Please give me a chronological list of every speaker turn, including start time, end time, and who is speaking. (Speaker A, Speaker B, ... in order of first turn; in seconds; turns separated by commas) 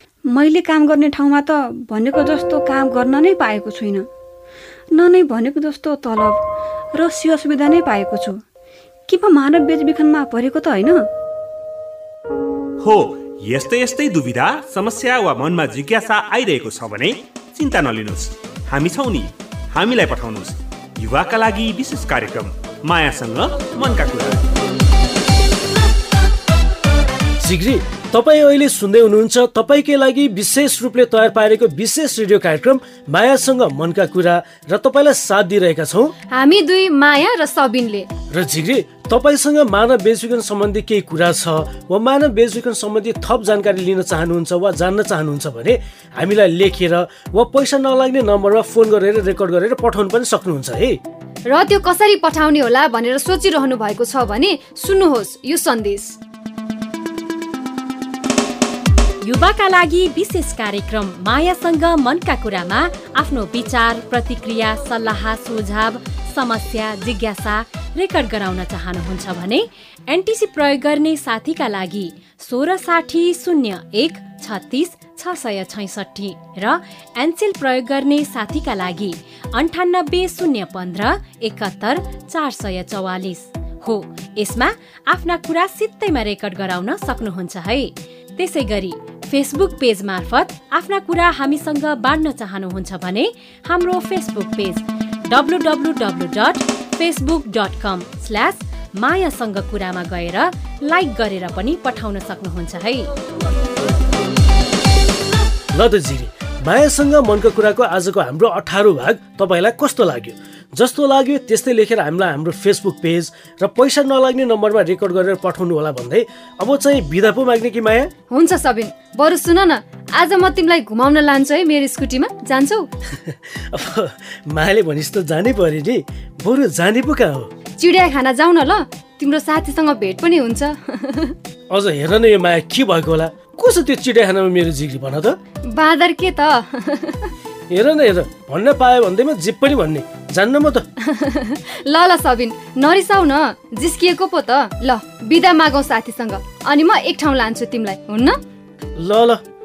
Speaker A: 0.3-4.0, Speaker A: 4.9-6.4, Speaker A: 6.9-8.4, Speaker A: 9.1-11.1, Speaker B: 12.8-24.4, Speaker C: 27.4-36.1, Speaker D: 36.3-38.1, Speaker C: 38.3-51.0, Speaker D: 51.5-56.2, Speaker E: 59.2-103.1, Speaker C: 105.7-118.1, Speaker D: 118.3-122.9, Speaker C: 123.3-127.5, Speaker D: 127.8-131.3, Speaker C: 131.7-135.4, Speaker D: 135.7-137.3, Speaker C: 137.7-140.8, Speaker D: 141.0-148.4, Speaker C: 149.0-149.4